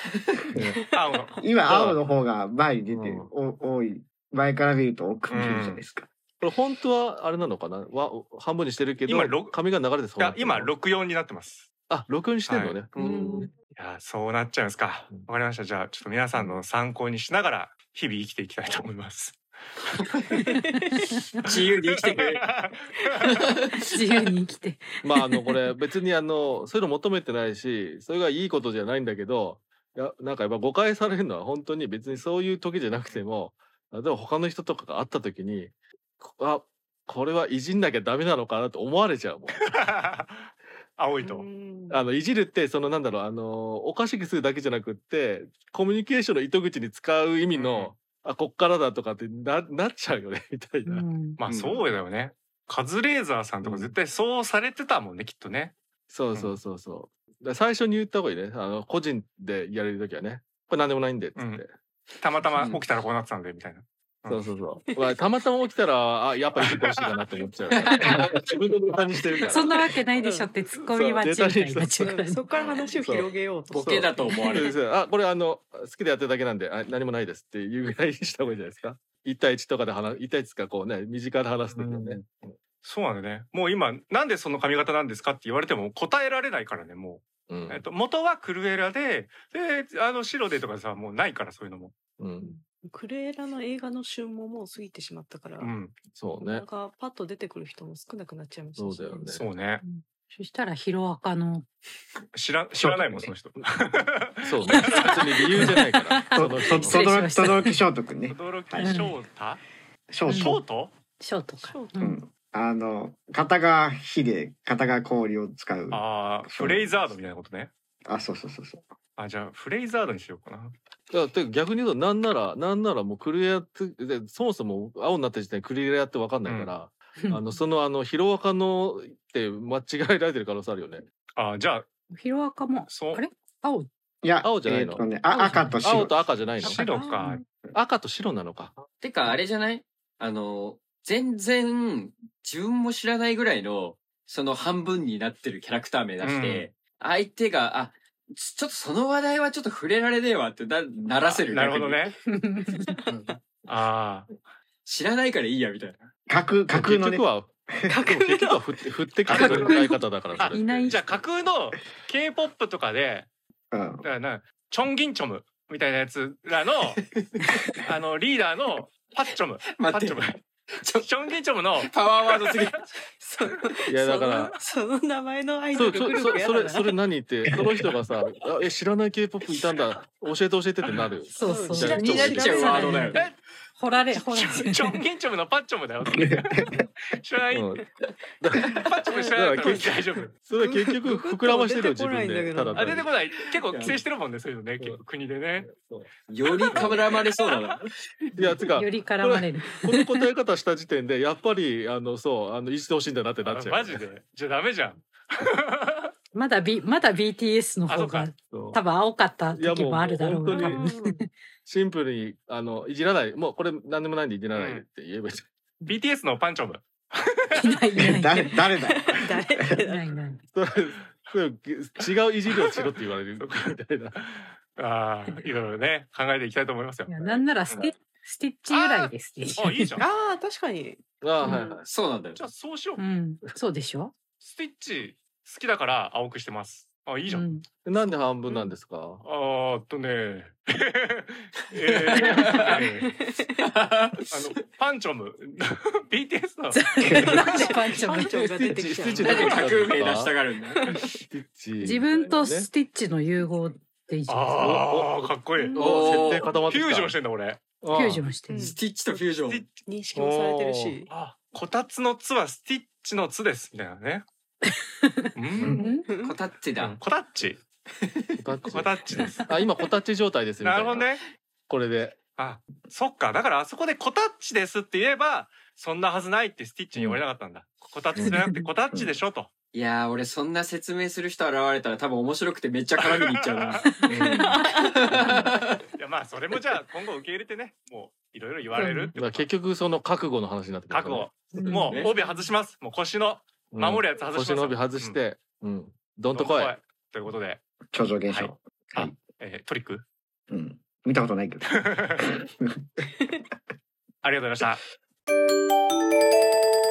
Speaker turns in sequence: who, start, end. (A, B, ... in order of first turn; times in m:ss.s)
0:00.9-0:02.0 A
0:01.1-0:01.4 B
0:01.4-0:06.1 C
0:02.9-0:03.3 D
0:05.3-0:05.8 A
0:06.4-0:10.7 D
0:09.0-0:09.6 A
0:10.2-0:11.7 A
0:11.9-0:12.9 D
0:12.5-0:12.8 A
0:12.9-0:13.5 E
0:13.0-0:13.5 B
0:13.0-0:13.5 F
0:13.7-0:19.4 A
0:16.3-0:16.6 D
0:19.9-0:20.3 E
0:20.4-0:20.9 B
0:20.5-0:21.4 F
0:21.4-0:22.5 E
0:21.5-0:23.4 A
0:23.2-0:24.3 E
0:23.8-0:25.6 F
0:25.0-0:39.7 D
0:39.6-0:41.4 A
0:41.2-0:42.0 B
0:41.9-0:51.0 D
0:47.5-0:47.9 A
0:50.8-0:51.4 F
0:51.4-0:55.7 A
0:51.4-0:51.8 E
0:53.6-0:53.9 D
0:56.1-1:01.7 D
1:01.4-1:01.6 A
1:02.2-1:04.4 A
1:02.6-1:02.8 E
1:04.3-1:09.8 D
1:06.6-1:07.1 A
1:07.7-1:08.3 E
1:09.4-1:12.4 F
1:10.2-1:10.5 B
1:10.9-1:12.0 D
1:12.0-1:14.7 B
1:13.0-1:22.5 D
1:13.7-1:14.7 E
1:21.7-1:22.2 A
1:22.8-1:31.9 A
1:27.5-1:27.8 D
1:32.2-1:32.5 D
1:32.4-1:35.7 B
1:35.6-1:36.0 A
1:36.1-1:36.6 D
1:36.5-1:39.4 B
1:38.8-1:39.4 D
1:39.3-1:39.8 A
1:39.8-1:41.6 F
1:42.3-1:45.2 A
1:44.4-1:47.1 D
1:44.7-1:47.8 F
1:46.3-1:49.0 C
1:48.3-1:49.6 A
1:48.8-1:49.2 F
1:50.1-1:50.6 C
1:50.3-1:50.6 F
1:50.3-1:50.9 A
1:51.2-1:52.2 F
1:51.6-1:52.1 B
1:52.0-1:56.8 C
1:55.9-1:57.7 A
1:58.0-1:58.8 C
1:59.2-2:00.7 A
2:01.1-2:11.0 D
2:06.4-2:06.7 A
2:07.2-2:07.5 F
2:11.4-2:11.9 A
2:12.1-2:13.9 F
2:12.9-2:13.2 A
2:14.2-2:16.2 C
2:14.4-2:15.1 D
2:15.3-2:16.0 F
2:15.8-2:16.8 D
2:16.6-2:17.4 A
2:16.7-2:17.4 B
2:17.7-2:18.8 D
2:19.0-2:32.1 E
2:26.2-2:26.7 A
2:31.2-2:32.1 A
2:32.2-2:33.0 F
2:32.7-2:33.1 B
2:33.7-2:34.3 A
2:34.8-2:36.1 E
2:36.3-2:37.2 C
2:36.7-2:37.5 D
2:37.9-2:38.7 B
2:38.0-2:41.0 D
2:39.3-2:39.8 B
2:39.3-2:39.7 A
2:39.3-2:41.0 F
2:40.9-2:43.3 A
2:43.7-2:44.0 C
2:44.0-2:47.0 A
2:47.2-2:47.5 E
2:47.8-2:50.4 A
2:49.7-2:51.1 E
2:50.9-2:52.8 A
2:51.8-2:52.9 E
2:53.2-2:57.0 B
2:53.9-2:54.6 D
2:55.7-3:02.8 D
3:01.3-3:03.2 F
3:01.4-3:03.2 B
3:01.8-3:03.2 E
3:03.8-3:05.0 F
3:04.1-3:07.8 A
3:06.1-3:06.8 C
3:07.5-3:07.8 D
3:08.4-3:08.7 D
3:08.7-3:10.3 A
3:09.3-3:13.1 D
3:10.6-3:13.1 B
3:12.7-3:15.7 A
3:13.7-3:14.0 E
3:15.6-3:16.1 D
3:16.3-3:18.4 E
3:16.6-3:17.6 A
3:16.7-3:17.0 D
3:18.4-3:24.0 D
3:18.7-3:20.2 F
3:23.4-3:26.1 A
3:26.3-3:30.8 F
3:27.9-3:28.3 A
3:28.5-3:28.8 D
3:29.5-3:31.0 D
3:30.5-3:31.2 B
3:31.6-3:35.5 D
3:34.5-3:34.8 A
3:35.8-3:37.7 A
3:37.5-3:38.6 F
3:38.0-3:39.4 C
3:39.1-3:40.2 B
3:39.8-3:40.4 F
3:40.5-3:44.2 D
3:42.6-3:42.8 A
3:43.4-3:47.1 A
3:47.1-3:50.0 F
3:48.7-3:50.0 A
3:50.0-3:51.8 B
3:51.2-3:51.8 D
3:51.4-3:51.7 F
3:51.8-3:52.4 E
3:52.4-3:53.0 A
3:53.0-3:54.1 F
3:54.4-3:57.4 A
3:57.3-3:57.6 F
3:57.8-3:59.2 D
3:59.2-4:03.1 A
4:01.8-4:02.9 E
4:03.0-4:03.5 B
4:03.6-4:04.4 E
4:04.3-4:06.8 A
4:06.7-4:08.4 F
4:07.0-4:09.7 B
4:07.1-4:07.4 C
4:07.4-4:07.8 A
4:08.3-4:10.3 D
4:09.2-4:10.8 E
4:10.7-4:11.2 B
4:11.3-4:12.7 D
4:11.8-4:14.8 F
4:14.3-4:15.8 A
4:14.6-4:17.1 D
4:15.5-4:16.7 B
4:15.8-4:16.5 E
4:16.6-4:17.6 A
4:17.8-4:18.3 D
4:17.9-4:18.6 F
4:18.5-4:18.8 B
4:18.5-4:19.6 E
4:19.8-4:21.1 B
4:20.1-4:20.9 D
4:21.1-4:24.2 A
4:24.7-4:26.1 F
4:25.3-4:25.8 A
4:25.6-4:25.9 C
4:25.8-4:26.4 B
4:26.2-4:27.0 E
4:26.8-4:27.6 A
4:28.0-4:28.4 E
4:28.4-4:28.9 D
4:28.7-4:29.5 A
4:29.5-4:31.0 D
4:30.6-4:31.2 A
4:31.7-4:32.2 D
4:32.4-4:39.5 A
4:36.9-4:37.2 D
4:38.2-4:38.6 F
4:39.7-4:43.8 E
4:43.0-4:43.8 A
4:43.8-4:44.2 F
4:44.0-4:44.6 D
4:44.5-4:44.9 B
4:44.7-4:45.8 E
4:46.0-4:49.5 A
4:48.7-4:49.2 F
4:49.1-4:51.3 D
4:50.9-4:55.2 A
4:51.6-4:52.1 F
4:51.7-4:52.1 E
4:53.7-4:56.7 D
4:56.3-4:57.6 A
4:57.9-4:59.2 C
4:58.3-5:00.0 A
5:00.5-5:02.5 C
5:01.7-5:02.3 A
5:04.2-5:04.8 A